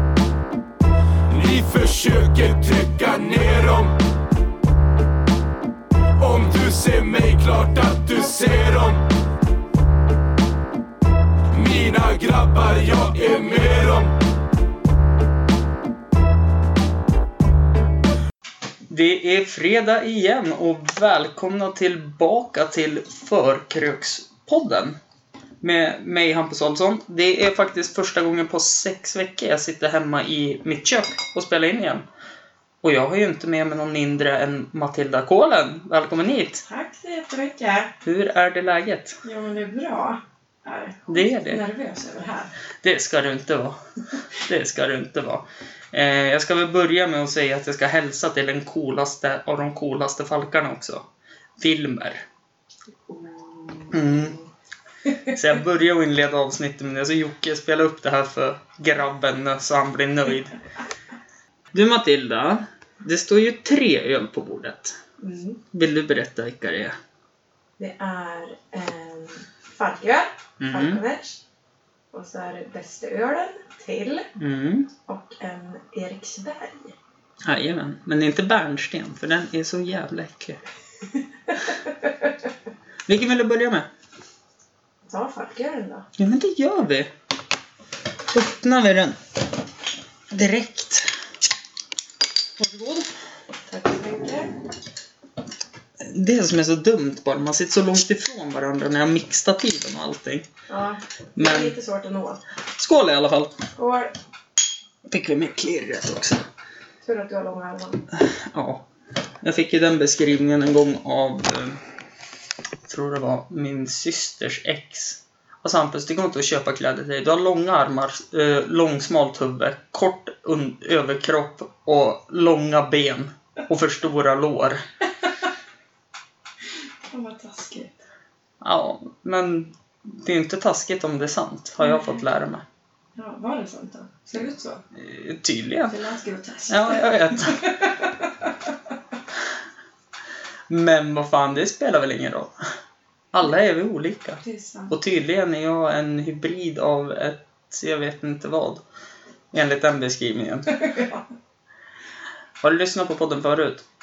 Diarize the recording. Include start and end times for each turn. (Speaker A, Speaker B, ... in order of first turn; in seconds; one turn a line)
Speaker A: 1.3-4.0
Speaker A: 6.2-9.0
Speaker A: 11.5-14.1
Speaker B: 18.9-25.0
Speaker B: 25.6-32.0
Speaker B: 32.8-36.6
Speaker C: 36.6-37.9
Speaker B: 38.0-39.2
Speaker C: 39.2-42.5
Speaker B: 41.1-41.6
Speaker B: 42.8-51.0
Speaker B: 51.6-52.2
Speaker C: 53.1-54.5
Speaker B: 53.9-54.4
Speaker B: 55.3-60.6
Speaker B: 61.7-65.0
Speaker C: 65.2-65.6
Speaker B: 65.7-67.0
Speaker C: 67.8-71.4
Speaker B: 70.6-71.0
Speaker C: 72.1-74.3
Speaker B: 74.3-74.9
Speaker C: 75.0-77.0
Speaker B: 77.4-80.6
Speaker C: 81.5-82.3
Speaker B: 83.1-83.9
Speaker C: 85.0-86.1
Speaker B: 86.2-87.1
Speaker B: 88.3-89.2
Speaker B: 90.3-91.1
Speaker B: 92.6-93.1
Speaker C: 93.7-94.5
Speaker B: 96.0-100.5
Speaker C: 100.7-102.4
Speaker B: 101.3-101.8
Speaker B: 102.7-103.6
Speaker C: 103.7-104.1
Speaker B: 105.0-106.4
Speaker C: 107.0-108.1
Speaker B: 108.1-108.8
Speaker B: 109.4-111.8
Speaker B: 112.8-124.8
Speaker C: 127.1-128.0
Speaker B: 128.6-132.6
Speaker C: 131.8-132.2
Speaker C: 133.2-134.8
Speaker B: 134.9-135.9
Speaker C: 135.9-138.5
Speaker B: 136.7-137.6
Speaker B: 140.7-142.6
Speaker B: 143.3-148.8
Speaker C: 144.4-144.9
Speaker B: 149.5-150.7
Speaker C: 150.7-151.2
Speaker B: 152.6-153.8